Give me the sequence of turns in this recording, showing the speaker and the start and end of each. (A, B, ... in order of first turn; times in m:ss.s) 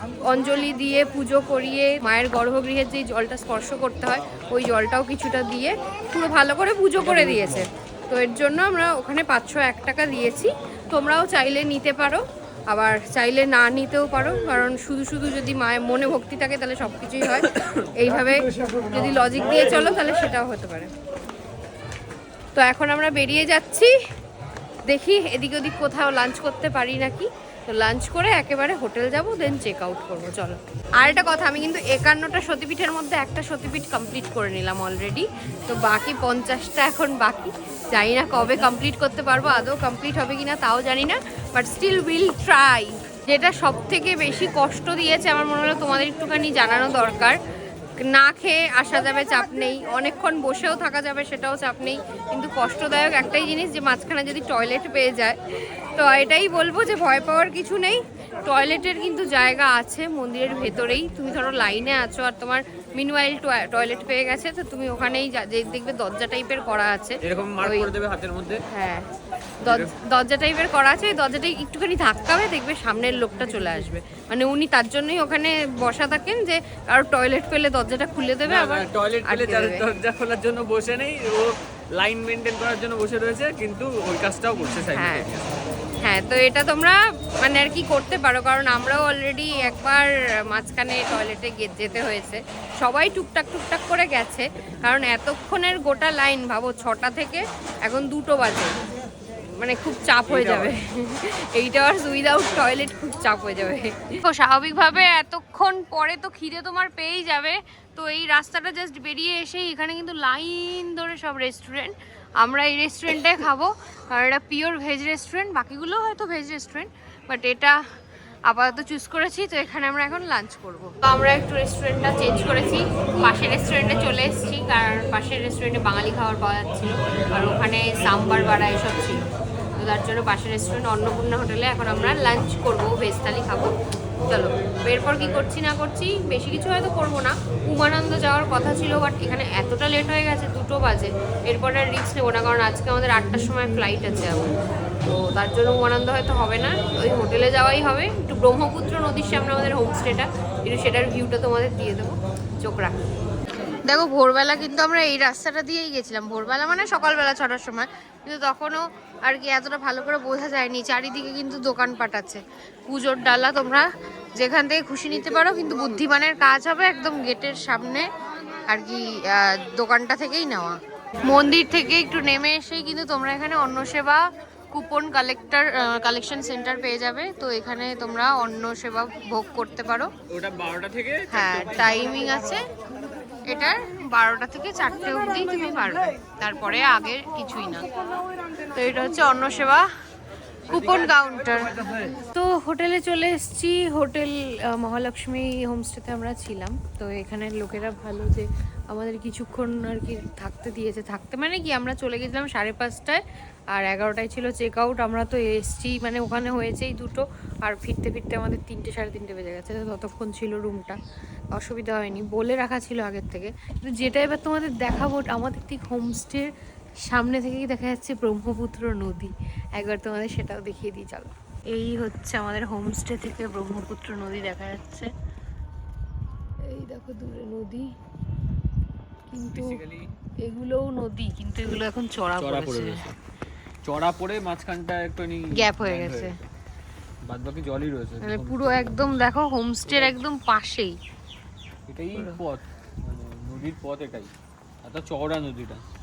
0:00.2-0:20.9 A
0:17.4-0:17.8 B
0:22.5-0:23.9 A
0:24.9-0:47.4 A
0:48.0-1:07.9 A
1:07.2-1:08.6 B
1:08.7-1:09.0 A
1:09.6-1:09.9 B
1:09.6-1:19.8 A
1:18.4-1:25.6 B
1:24.9-1:25.3 A
1:26.0-1:38.7 A
1:39.6-1:57.8 A
1:40.3-1:40.7 B
1:58.5-2:09.2 A
2:09.8-2:13.7 A
2:14.3-2:24.5 A
2:25.0-2:32.9 A
2:33.8-2:48.1 A
2:48.7-3:00.1 A
3:00.3-3:02.0 B
3:01.3-3:02.6 A
3:03.5-3:07.9 A
3:08.7-3:09.9 A
3:10.7-3:23.2 A
3:23.7-3:31.0 A
3:31.5-3:36.5 A
3:37.1-3:45.1 A
3:46.6-3:47.9 A
3:49.3-3:49.8 A
3:49.5-3:50.1 B
3:50.4-3:53.0 A
3:52.4-3:53.2 B
3:53.8-3:56.5 B
3:55.5-3:56.4 A
3:57.2-3:59.1 B
3:58.2-4:01.0 A
3:59.9-4:00.2 B
4:01.9-4:04.3 B
4:04.8-4:05.8 B